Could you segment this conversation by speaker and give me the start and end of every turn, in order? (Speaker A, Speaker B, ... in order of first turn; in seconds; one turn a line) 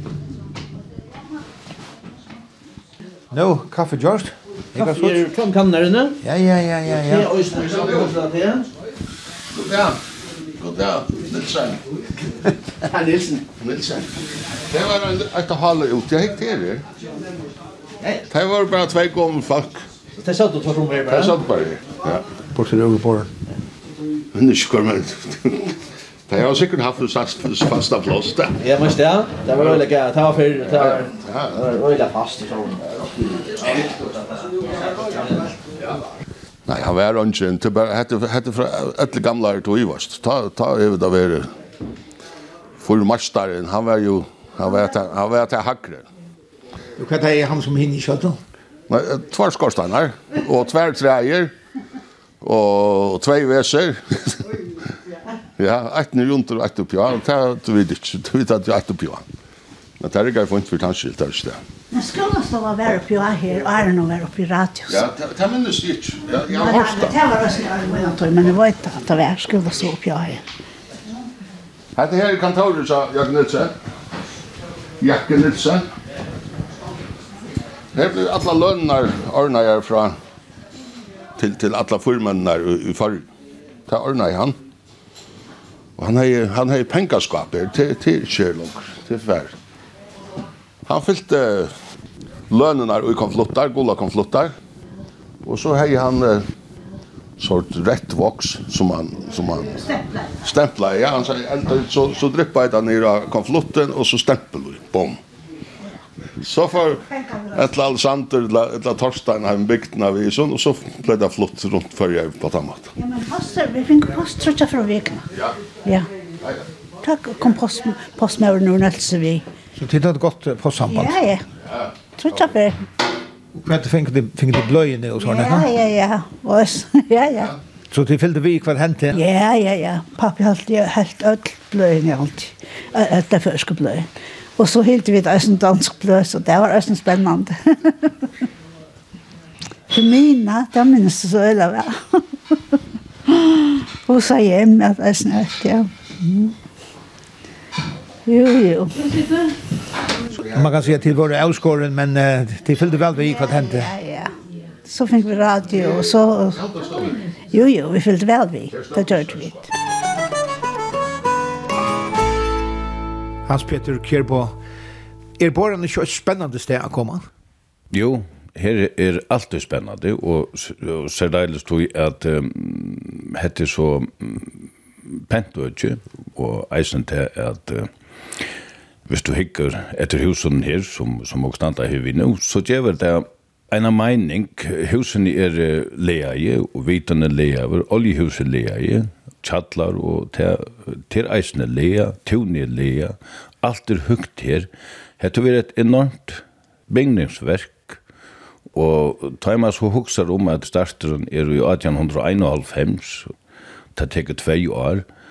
Speaker A: 3.3-5.2
Speaker B: 4.8-6.2
Speaker A: 6.2-7.3
Speaker B: 6.9-8.7
Speaker C: 7.6-8.1
Speaker C: 9.6-10.0
Speaker C: 10.6-11.8
Speaker B: 12.8-13.5
Speaker C: 13.6-14.1
Speaker C: 14.7-16.8
Speaker C: 18.3-19.8
Speaker B: 20.2-21.4
Speaker C: 21.1-22.2
Speaker A: 22.6-23.3
Speaker C: 24.3-25.7
Speaker C: 26.3-28.6
Speaker B: 28.6-35.5
Speaker C: 30.6-31.6
Speaker C: 36.7-41.5
Speaker C: 42.8-46.1
Speaker A: 47.0-48.4
Speaker C: 48.9-51.5
Speaker C: 52.4-54.5
Speaker C: 55.6-59.2
Speaker C: 60.0-61.6
Speaker D: 61.9-65.0
Speaker C: 64.9-67.1
Speaker D: 66.5-70.4
Speaker C: 72.0-73.7
Speaker C: 75.0-75.9
Speaker C: 77.9-80.2
Speaker C: 81.4-83.3
Speaker C: 83.9-84.6
Speaker C: 86.0-89.5
Speaker C: 90.9-91.7
Speaker C: 92.5-94.5
Speaker C: 95.4-96.4
Speaker C: 97.4-99.8
Speaker C: 100.4-105.2
Speaker C: 106.4-112.9
Speaker D: 113.0-115.3
Speaker D: 117.0-119.4
Speaker A: 119.8-121.2
Speaker D: 120.9-121.4
Speaker D: 122.2-122.8
Speaker A: 123.5-125.7
Speaker D: 125.2-127.5
Speaker A: 127.9-129.2
Speaker D: 129.1-138.1
Speaker D: 139.9-142.6
Speaker D: 143.3-146.5
Speaker D: 148.2-149.3
Speaker A: 150.5-153.9
Speaker D: 153.6-154.3
Speaker D: 154.8-156.6
Speaker C: 156.5-157.2
Speaker D: 157.5-159.7
Speaker C: 158.8-159.4
Speaker A: 163.5-164.6
Speaker A: 165.4-167.2
Speaker E: 167.9-178.5
Speaker E: 179.1-194.7
Speaker E: 195.2-198.0
Speaker E: 198.7-203.3
Speaker E: 203.9-205.1